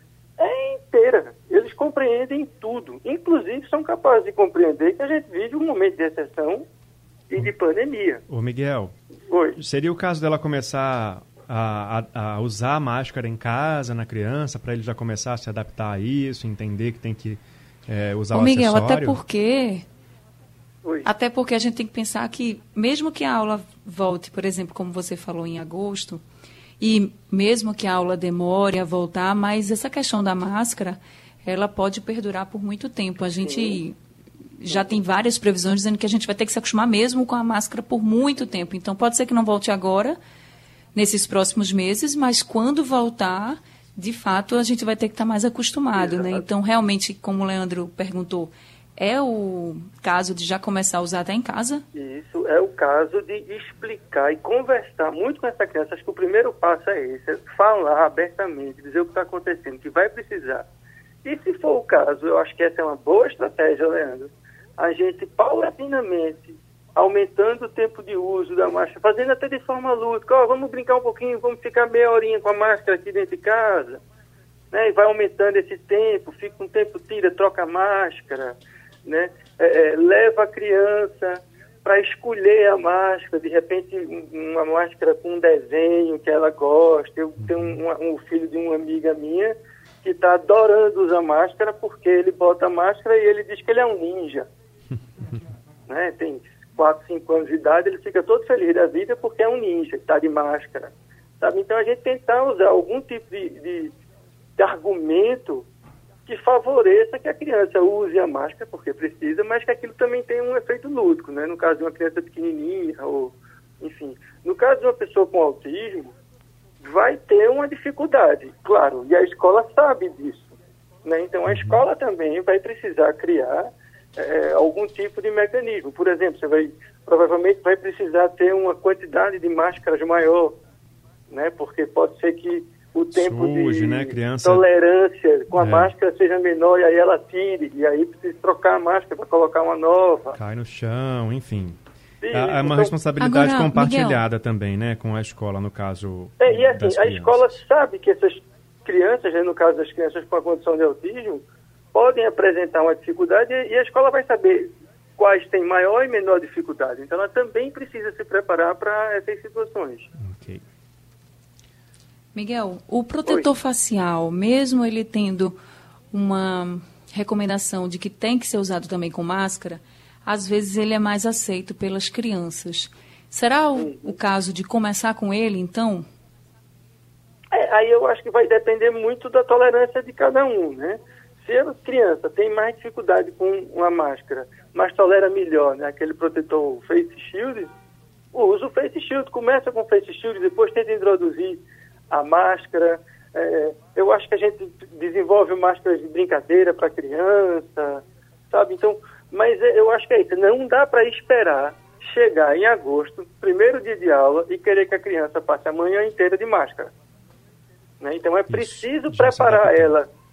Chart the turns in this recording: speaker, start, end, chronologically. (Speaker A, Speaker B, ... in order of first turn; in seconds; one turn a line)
Speaker A: 0.4-6.7
Speaker A: 7.3-8.2
Speaker B: 8.3-8.9
Speaker A: 9.3-9.6
Speaker B: 9.6-19.2
Speaker C: 18.3-19.8
Speaker A: 20.8-21.1
Speaker C: 21.0-26.2
Speaker C: 26.8-34.0
Speaker A: 33.4-33.8
Speaker C: 34.6-40.2
Speaker C: 40.9-51.8
Speaker A: 45.9-46.5
Speaker A: 51.9-60.7
Speaker A: 61.2-74.0
Speaker A: 74.7-94.5
Speaker B: 87.4-87.7
Speaker A: 95.9-103.9
Speaker A: 104.6-105.7
Speaker A: 106.2-116.1
Speaker A: 116.8-130.6
Speaker B: 121.5-121.8
Speaker A: 131.3-140.4
Speaker B: 133.1-134.6
Speaker B: 135.5-135.9
Speaker B: 140.3-141.8
Speaker A: 142.2-142.9
Speaker B: 142.3-147.5
Speaker C: 143.2-144.2
Speaker A: 146.4-160.1
Speaker B: 160.2-160.6
Speaker C: 162.3-165.6
Speaker C: 166.1-176.1
Speaker A: 173.8-174.1
Speaker A: 177.5-187.7
Speaker A: 188.3-206.9
Speaker A: 208.0-210.1
Speaker B: 208.5-209.9